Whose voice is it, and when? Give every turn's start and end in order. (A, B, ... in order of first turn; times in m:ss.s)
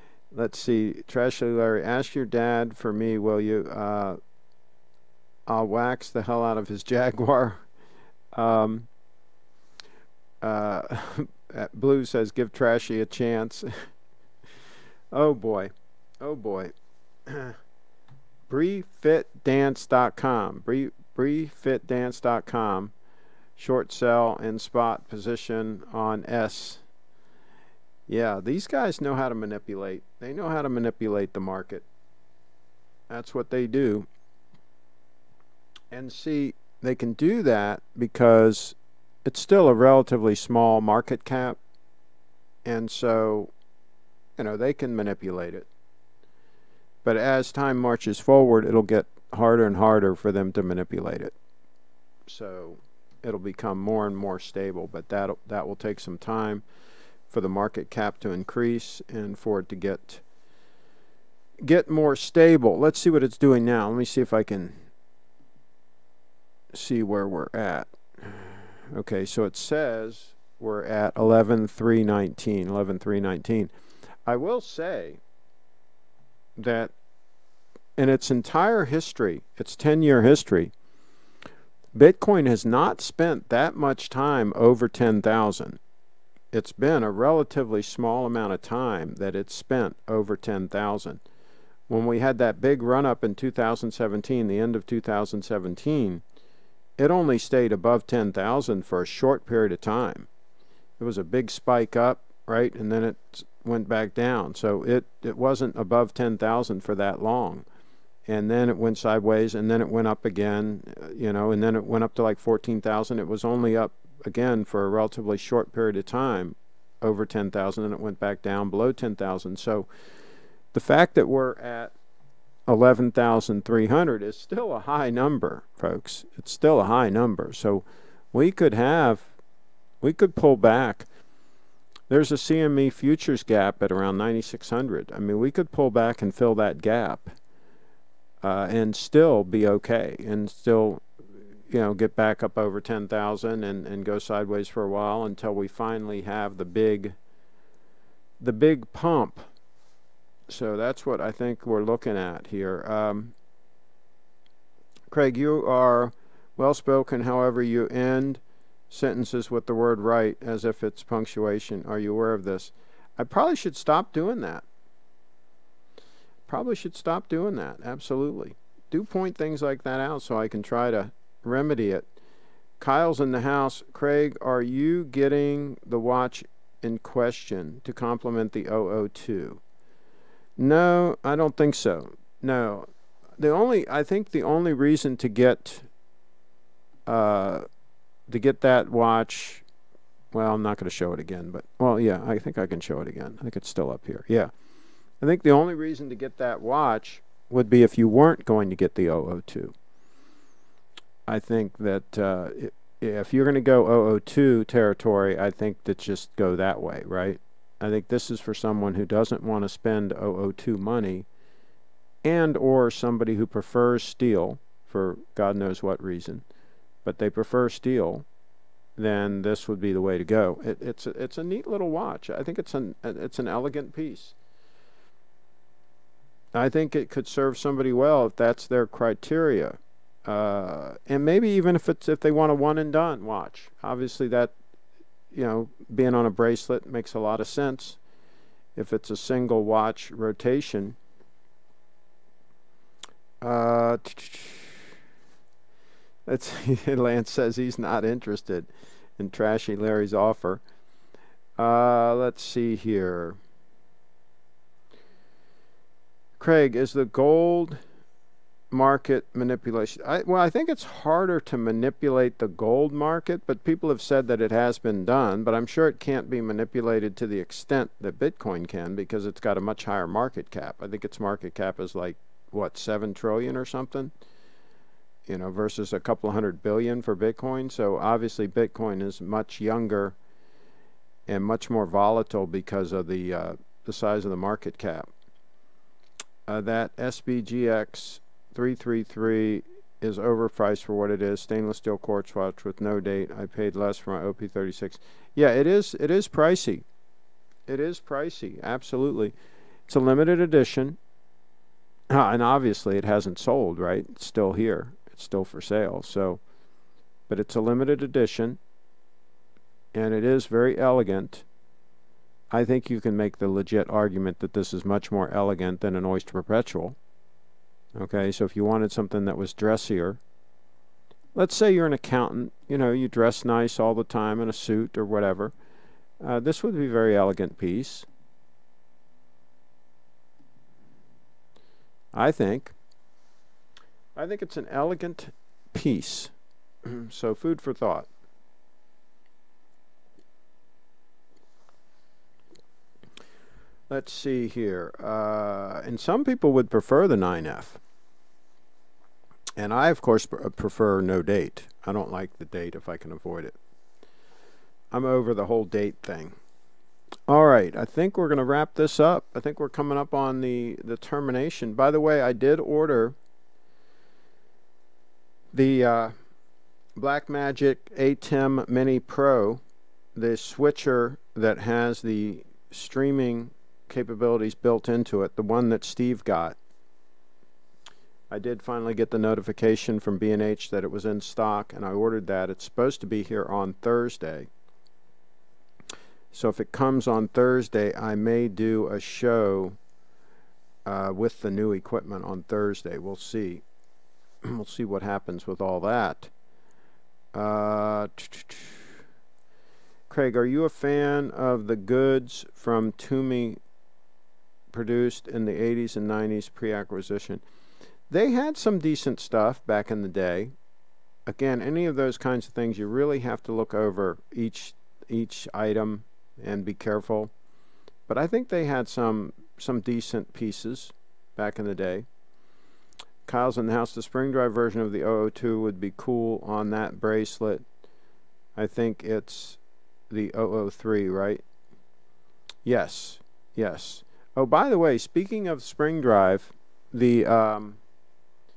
0:00.3-0:04.2 A
0:05.5-0:07.6 A
0:08.3-0:08.9 A
0:10.4-0:13.7 A
0:15.1-0:16.7 A
0:17.3-0:17.6 A
0:18.5-0:22.9 A
0:23.6-0:26.8 A
0:28.1-0:31.8 A
0:33.1-0:34.1 A
0:35.9-0:41.6 A
0:42.6-0:43.5 A
0:44.4-0:45.7 A
0:47.0-0:51.4 A
0:52.3-0:56.6 A
0:57.3-1:00.2 A
1:01.6-1:04.8 A
1:06.7-1:13.7 A
1:14.3-1:15.2 A
1:16.6-1:16.9 A
1:18.0-1:20.7 A
1:22.0-1:25.8 A
1:26.5-1:31.2 A
1:31.9-1:36.2 A
1:37.0-1:40.3 A
1:41.0-1:47.6 A
1:48.3-1:59.9 A
2:00.7-2:01.9 A
2:02.7-2:09.3 A
2:10.0-2:11.1 A
2:12.1-2:17.4 A
2:18.4-2:21.0 A
2:21.7-2:27.2 A
2:28.4-2:29.5 A
2:30.5-2:33.3 A
2:35.1-2:44.6 A
2:46.5-2:52.1 A
2:52.8-2:59.6 A
3:00.6-3:05.9 A
3:07.1-3:07.6 A
3:08.3-3:09.6 A
3:10.3-3:14.5 A
3:15.2-3:19.7 A
3:21.3-3:31.3 A
3:32.2-3:36.4 A
3:37.0-3:38.2 A
3:39.0-3:44.3 A
3:46.5-3:54.5 A
3:55.3-3:58.0 A
3:58.8-4:01.0 A
4:03.4-4:04.8 A
4:06.3-4:10.6 A
4:11.6-4:13.4 A
4:16.4-4:17.8 A
4:18.7-4:34.1 A
4:35.3-4:40.2 A
4:41.3-4:45.1 A
4:46.5-4:56.8 A
4:57.7-4:59.3 A
4:59.9-5:01.0 A
5:02.1-5:06.4 A
5:07.3-5:08.6 A
5:09.9-5:11.4 A
5:12.5-5:17.0 A
5:18.0-5:20.2 A
5:21.3-5:25.5 A
5:26.2-5:28.1 A
5:32.1-5:32.8 A
5:34.2-5:36.3 A
5:36.9-5:38.1 A
5:43.9-5:47.8 A
5:49.6-5:53.6 A
5:54.9-5:56.4 A
5:57.3-6:03.2 A
6:05.5-6:06.2 A
6:07.0-6:09.6 A
6:10.2-6:16.6 A
6:18.3-6:24.5 A
6:26.3-6:29.8 A
6:30.8-6:33.6 A
6:34.4-6:36.3 A
6:37.3-6:38.9 A
6:40.1-6:43.6 A
6:44.7-6:47.4 A
6:48.1-6:50.5 A
6:51.3-6:57.3 A
6:58.1-7:02.1 A
7:03.3-7:07.6 A
7:08.6-7:09.6 A
7:10.1-7:11.4 A
7:12.6-7:17.8 A